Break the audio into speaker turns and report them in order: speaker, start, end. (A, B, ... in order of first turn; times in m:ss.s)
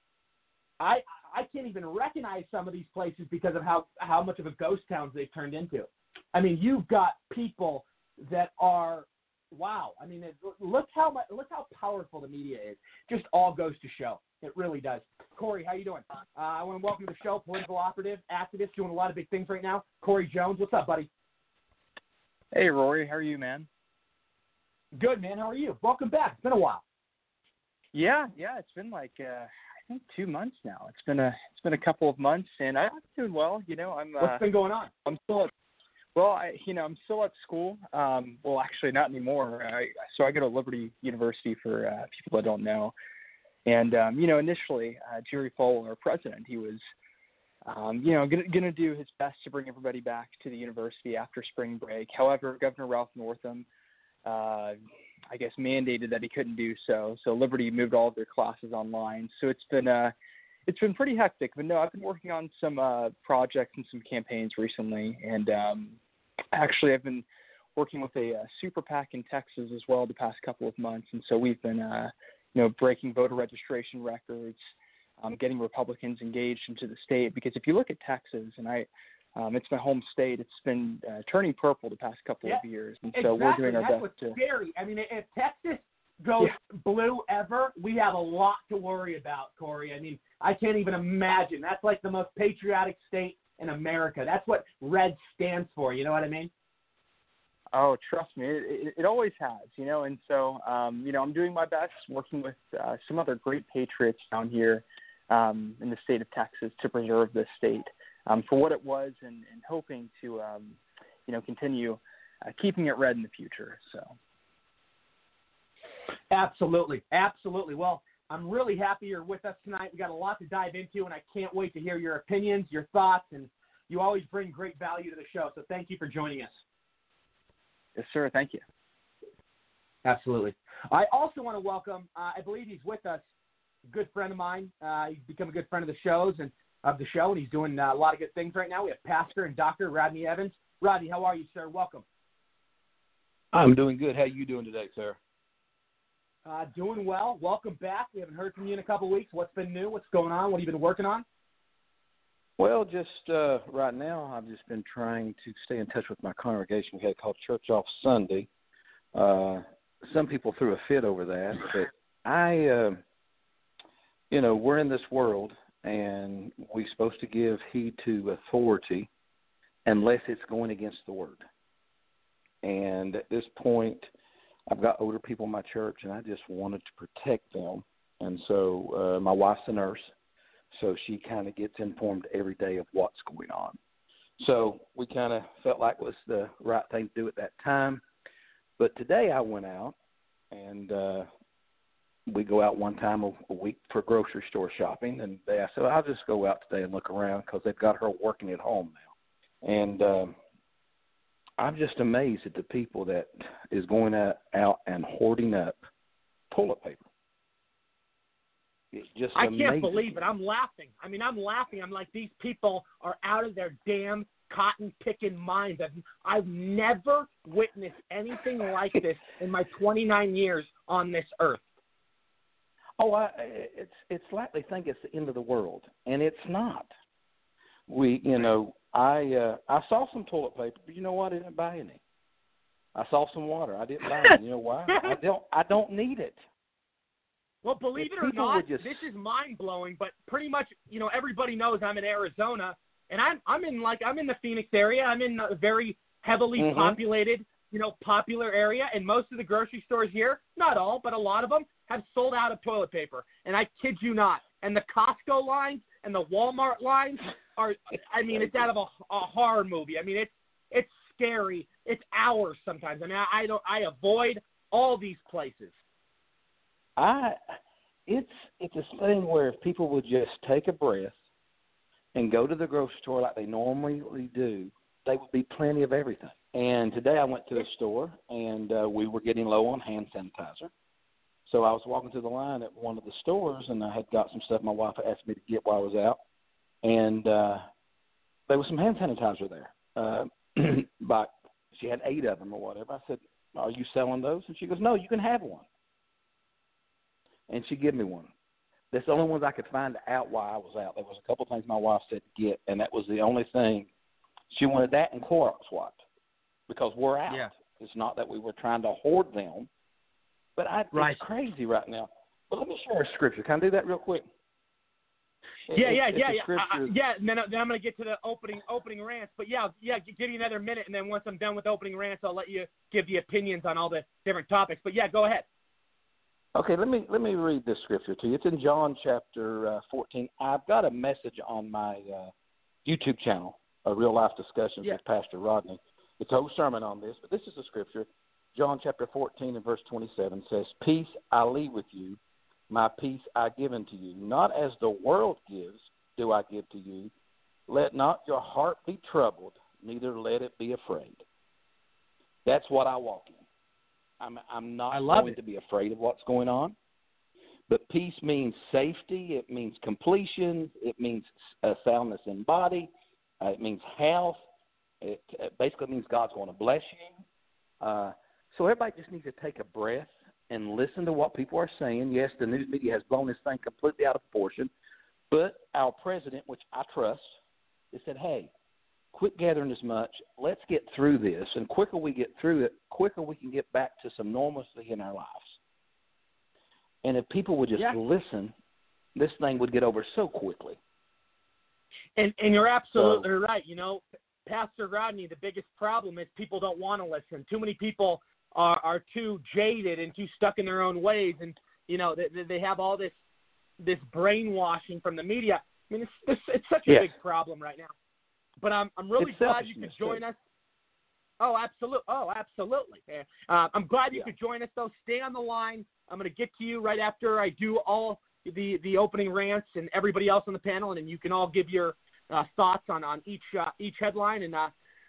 0:00.8-0:21.1 A
0:22.5-0:23.7 B
0:25.0-0:26.8 A
0:27.9-0:34.4 B
0:34.2-0:34.9 A
0:35.1-0:35.5 B
0:36.2-0:43.0 B
0:43.7-0:46.8 B
0:47.7-0:53.7 B
0:54.2-0:54.8 B
0:55.3-1:00.1 B
1:00.7-1:06.0 B
1:06.5-1:14.7 B
1:15.2-1:24.4 B
1:22.5-1:36.5 A
1:37.7-1:54.2 B
1:56.3-2:06.6 A
2:08.0-2:08.6 B
2:10.0-2:13.2 A
2:13.9-2:22.0 A
2:23.5-2:25.2 C
2:26.5-2:31.2 A
2:32.6-2:38.5 C
2:39.1-2:43.0 C
2:44.3-2:49.1 C
2:49.9-2:51.4 C
2:52.6-2:54.1 C
2:54.7-3:00.1 C
3:00.7-3:03.8 C
3:04.4-3:08.0 C
3:08.8-3:10.0 C
3:10.5-3:11.3 C
3:12.3-3:19.1 C
3:19.6-3:20.4 C
3:21.6-3:25.8 C
3:26.5-3:27.1 C
3:28.9-3:30.3 C
3:29.4-3:41.6 A
3:43.0-3:46.9 C
3:47.9-3:52.0 C
3:53.0-3:56.4 C
3:57.6-4:25.7 A
3:58.0-3:59.0 C
4:06.6-4:07.0 C
4:27.0-4:27.4 C
4:28.1-4:31.2 C
4:32.2-4:40.7 C
4:41.5-4:46.2 C
4:46.8-4:47.6 C
4:48.5-4:55.6 C
4:57.5-4:58.3 C
4:58.9-5:03.9 C
5:04.5-5:06.0 C
5:06.7-5:09.7 C
5:10.6-5:14.3 C
5:10.9-5:11.2 A
5:15.7-5:16.9 C
5:15.7-5:25.4 A
5:26.6-5:32.3 C
5:32.8-5:42.2 C
5:42.7-5:47.1 C
5:47.7-5:51.2 C
5:52.4-5:53.4 C
5:54.2-5:56.8 C
5:54.9-5:55.4 A
5:57.7-6:04.4 C
6:05.0-6:07.2 C
6:07.8-6:14.7 C
6:15.3-6:17.4 C
6:17.9-6:18.5 C
6:19.1-6:25.6 C
6:27.0-6:28.5 C
6:29.2-6:30.8 C
6:32.2-6:43.1 A
6:33.0-6:33.3 C
6:43.8-6:47.9 A
6:48.6-6:50.4 A
6:49.2-6:50.2 C
6:51.4-7:04.7 A